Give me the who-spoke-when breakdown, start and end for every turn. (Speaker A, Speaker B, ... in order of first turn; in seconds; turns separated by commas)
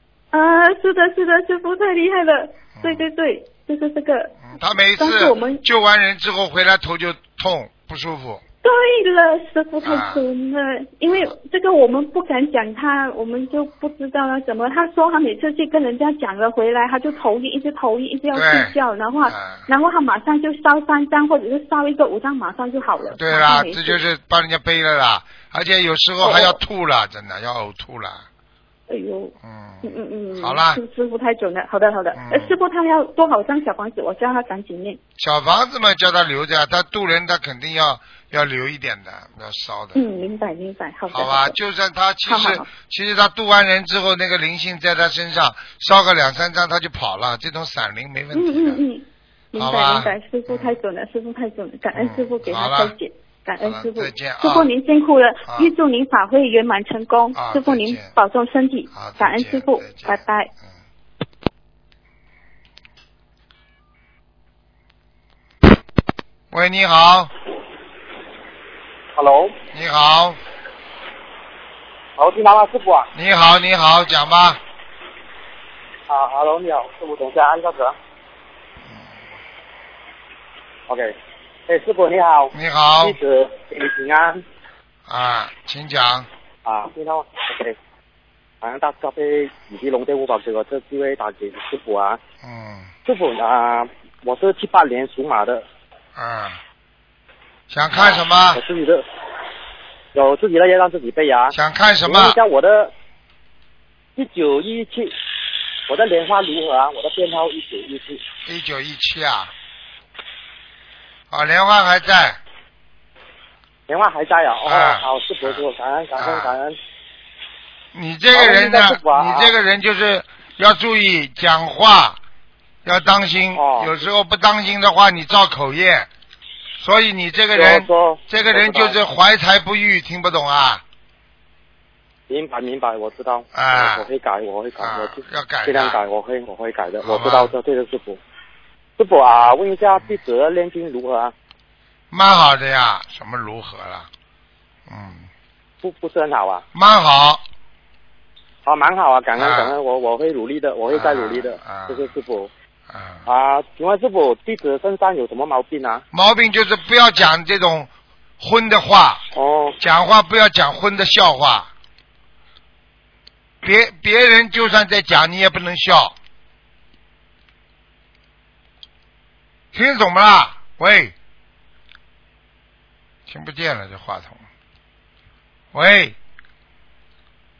Speaker A: 0.3-5.6, Speaker B: 2.8-3.0, Speaker B: 4.5-8.4, Speaker A: 8.6-24.0, Speaker B: 9.8-10.2, Speaker B: 18.3-18.7, Speaker B: 19.3-19.6, Speaker B: 23.1-28.2, Speaker A: 26.2-26.6, Speaker A: 28.9-35.0, Speaker B: 29.4-30.8, Speaker B: 32.1-32.6, Speaker B: 35.2-40.1, Speaker A: 39.9-41.5, Speaker B: 41.1-48.8, Speaker A: 42.2-42.7, Speaker A: 48.3-60.5, Speaker B: 49.5-50.8, Speaker B: 51.9-52.9, Speaker B: 53.6-54.7, Speaker B: 55.5-55.7, Speaker B: 57.3-58.1, Speaker B: 58.9-60.2, Speaker B: 66.5-67.3, Speaker C: 69.1-69.6, Speaker B: 69.7-70.4, Speaker C: 72.2-73.1, Speaker B: 73.1-74.6, Speaker C: 76.1-78.0, Speaker C: 80.9-81.1, Speaker C: 81.7-84.4, Speaker B: 82.5-83.2, Speaker B: 85.1-86.3, Speaker C: 86.6-87.8, Speaker C: 88.6-92.2, Speaker B: 92.4-92.9, Speaker C: 93.0-95.6, Speaker B: 96.2-96.6, Speaker B: 97.7-98.6, Speaker C: 98.0-99.0, Speaker C: 100.1-102.9, Speaker B: 101.5-102.4, Speaker C: 104.2-105.1, Speaker C: 105.9-108.2, Speaker B: 108.4-109.5, Speaker B: 111.3-112.4, Speaker C: 113.9-116.8, Speaker B: 114.6-115.6, Speaker B: 116.2-116.5, Speaker B: 117.9-122.2, Speaker C: 118.3-119.5, Speaker B: 122.8-126.1, Speaker C: 123.5-123.9, Speaker B: 126.8-130.8, Speaker C: 127.5-129.0, Speaker C: 132.3-138.2, Speaker B: 133.5-134.1, Speaker B: 134.8-136.0, Speaker B: 137.0-137.5, Speaker C: 139.0-141.3, Speaker B: 142.1-144.1, Speaker B: 144.9-145.3, Speaker C: 145.8-146.6, Speaker B: 146.7-147.4, Speaker C: 148.6-152.5, Speaker B: 149.3-149.7, Speaker B: 150.9-152.1, Speaker B: 152.9-153.2, Speaker C: 153.2-156.0, Speaker B: 156.1-159.2, Speaker C: 159.3-159.8, Speaker B: 159.8-161.7, Speaker B: 163.6-166.1, Speaker B: 169.7-171.1, Speaker B: 173.3-174.4, Speaker B: 175.7-176.2